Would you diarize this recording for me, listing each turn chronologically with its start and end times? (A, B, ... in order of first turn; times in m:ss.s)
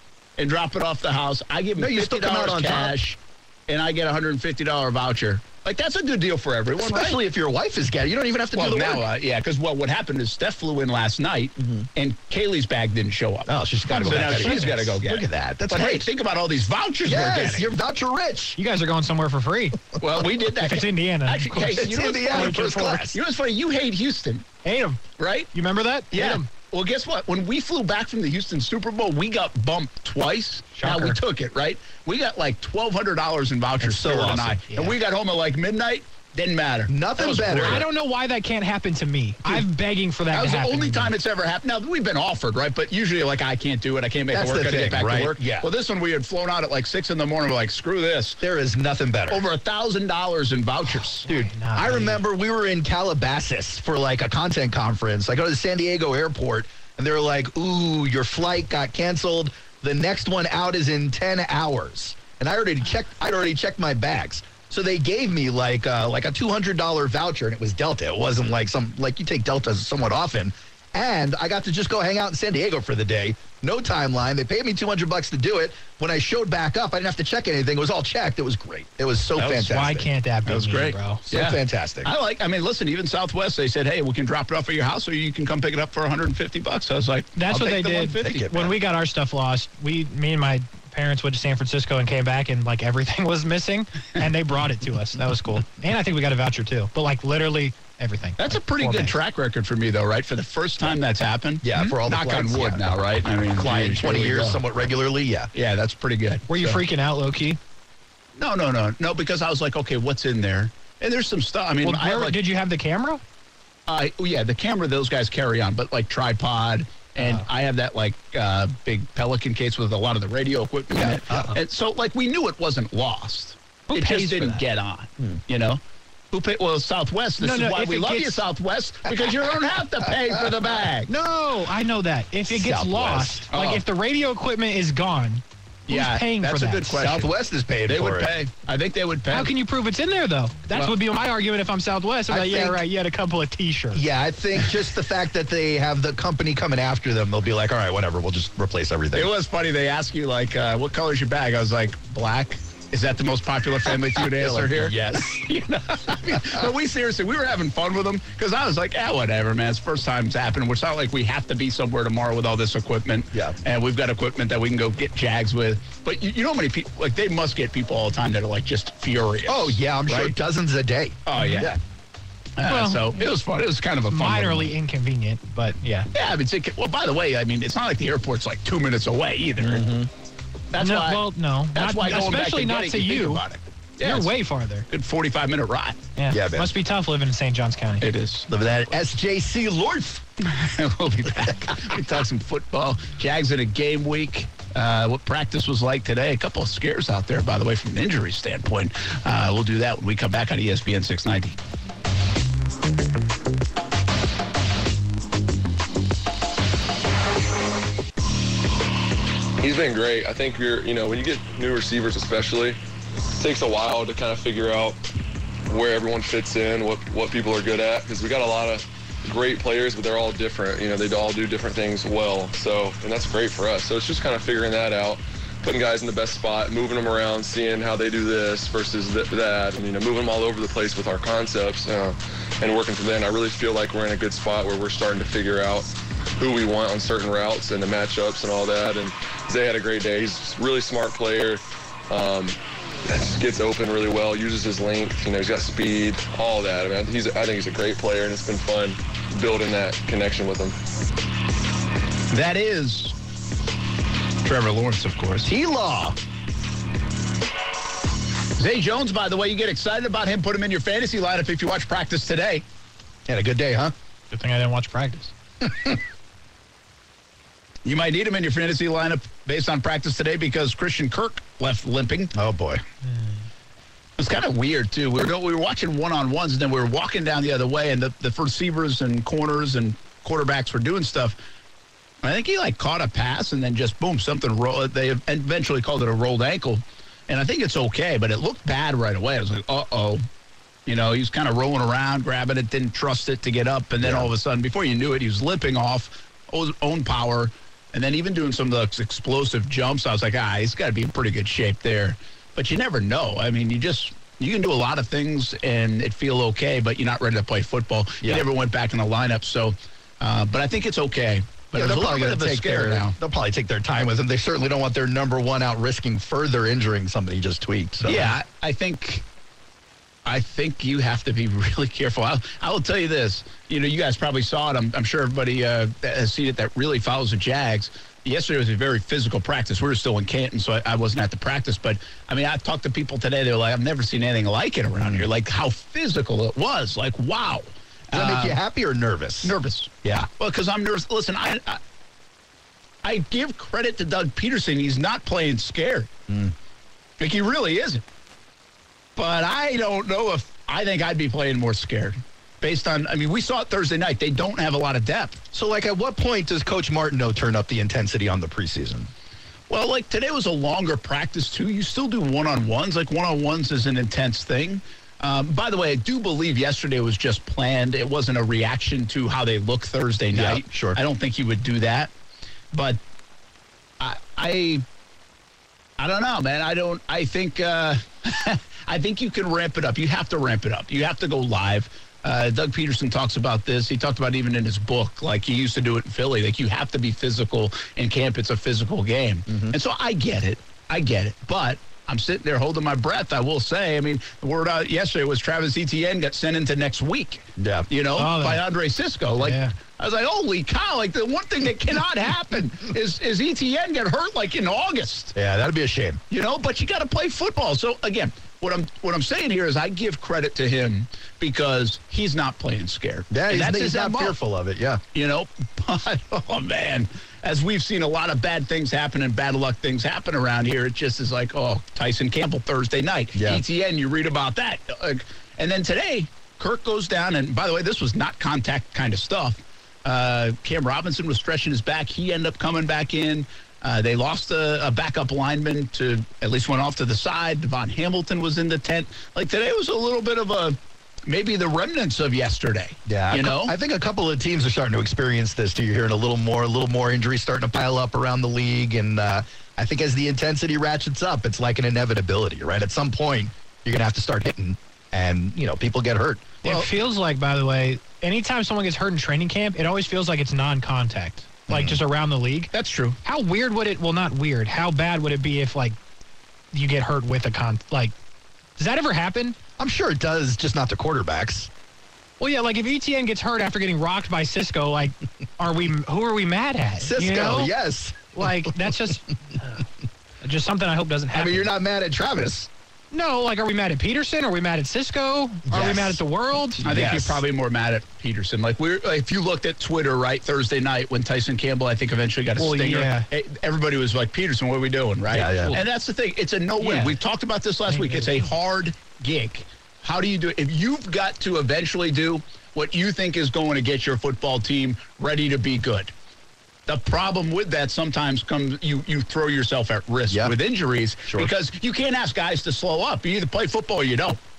0:00.4-0:07.2 A
0:01.8-0:03.0 B
0:06.8-0:09.1 B
0:08.5-0:17.7 A
0:11.6-0:11.9 B
0:13.5-0:16.1 B
0:13.9-0:14.8 C
0:17.0-0:18.6 B
0:18.6-0:19.8 C
0:20.0-0:24.5 A
0:20.6-0:23.1 C
0:21.6-0:23.2 B
0:24.6-0:25.0 C
0:25.2-0:25.5 A
0:25.5-0:26.5 C
0:26.1-0:37.9 A
0:30.8-0:31.2 C
0:33.8-0:34.6 B
0:36.9-0:37.8 B
0:37.2-0:41.1 C
0:40.3-0:48.4 A
0:44.3-0:45.7 B
0:48.4-0:49.4 B
0:49.3-0:51.3 A
0:51.2-0:52.2 C
0:51.3-1:20.1 B
1:19.4-1:19.7 A
1:19.6-1:21.2 C
1:20.5-1:28.5 A
1:21.3-1:22.1 B
1:27.4-1:39.2 C
1:27.5-1:28.8 B
1:38.4-1:44.6 A
1:41.6-1:42.9 B
1:43.6-1:45.5 B
1:45.5-1:46.8 A
1:46.5-1:47.6 C
1:48.4-1:52.4 A
1:51.8-1:53.2 C
1:53.9-2:05.8 A
1:57.2-1:57.4 C
2:01.1-2:01.5 B
2:03.9-2:04.6 C
2:06.3-2:11.1 A
2:07.4-2:08.4 C
2:11.1-2:17.0 C
2:12.5-2:13.5 B
2:13.5-2:13.8 A
2:15.9-2:17.3 A
2:17.0-2:18.3 B
2:17.9-2:19.5 A
2:19.3-2:24.0 C
2:22.3-2:22.8 B
2:23.9-2:29.3 B
2:29.1-2:50.3 A
2:34.2-2:35.5 B
2:43.3-2:43.6 B
2:49.5-2:51.8 B
2:51.3-2:51.8 A
2:51.4-2:51.7 C
2:52.6-2:54.8 A
2:52.6-2:53.2 C
2:54.1-2:56.1 C
2:56.1-3:00.0 A
2:59.6-3:00.1 B
3:00.7-3:04.4 A
3:00.8-3:03.4 C
3:04.0-3:04.9 C
3:04.9-3:06.0 A
3:06.2-3:08.1 C
3:06.3-3:06.7 B
3:08.0-3:08.7 A
3:08.5-3:10.2 B
3:10.4-3:21.6 A
3:29.6-3:32.8 D
3:33.4-3:35.0 D
3:35.7-4:10.8 D
4:12.3-4:13.2 A
4:14.4-4:15.5 A
4:15.4-4:16.2 B
4:18.6-4:22.6 A
4:23.3-4:23.9 B
4:24.3-4:25.3 C
4:25.6-4:26.0 B
4:27.8-4:32.3 A
4:32.3-4:32.8 B
4:33.0-4:33.4 C
4:34.2-4:41.4 A
4:42.2-4:50.2 A
4:50.9-5:13.2 A
4:54.0-4:54.3 B
5:11.7-5:18.3 B
5:18.0-5:19.2 A
5:20.2-5:38.6 A
5:35.0-5:35.2 B
5:38.1-5:40.3 B
5:39.4-5:41.8 A
5:43.0-5:46.1 A
5:46.3-5:46.5 B
5:47.2-5:48.0 A
5:49.2-5:55.4 A
5:55.5-5:59.1 B
5:59.7-6:12.1 A
6:10.3-6:11.0 B
6:12.7-6:13.0 A
6:14.0-6:14.8 A
6:16.0-6:45.3 A
6:29.5-6:29.7 B
6:37.6-6:37.9 B
6:38.2-6:38.6 C
6:39.4-6:39.7 C
6:45.4-6:46.2 B
6:46.3-6:54.4 A
6:53.3-6:55.0 B
6:55.1-7:23.7 A
7:03.4-7:03.6 B
7:23.1-7:36.6 B
7:36.6-7:42.7 C
7:41.7-7:42.0 B
7:42.7-7:43.2 A
7:43.2-7:46.0 C
7:46.7-7:48.1 C
7:48.8-7:49.6 C
7:49.8-7:51.7 B
7:52.4-7:57.7 C
7:57.0-7:58.7 B
7:58.3-7:59.8 C
8:00.4-8:01.7 C
8:01.3-8:02.7 B
8:03.1-8:06.8 C
8:05.7-8:06.2 B
8:06.8-8:07.4 B
8:06.8-8:26.1 A
8:12.6-8:13.3 C
8:15.3-8:15.8 B
8:16.8-8:17.2 C
8:17.9-8:18.5 C
8:26.9-8:34.4 A
8:30.3-8:30.5 B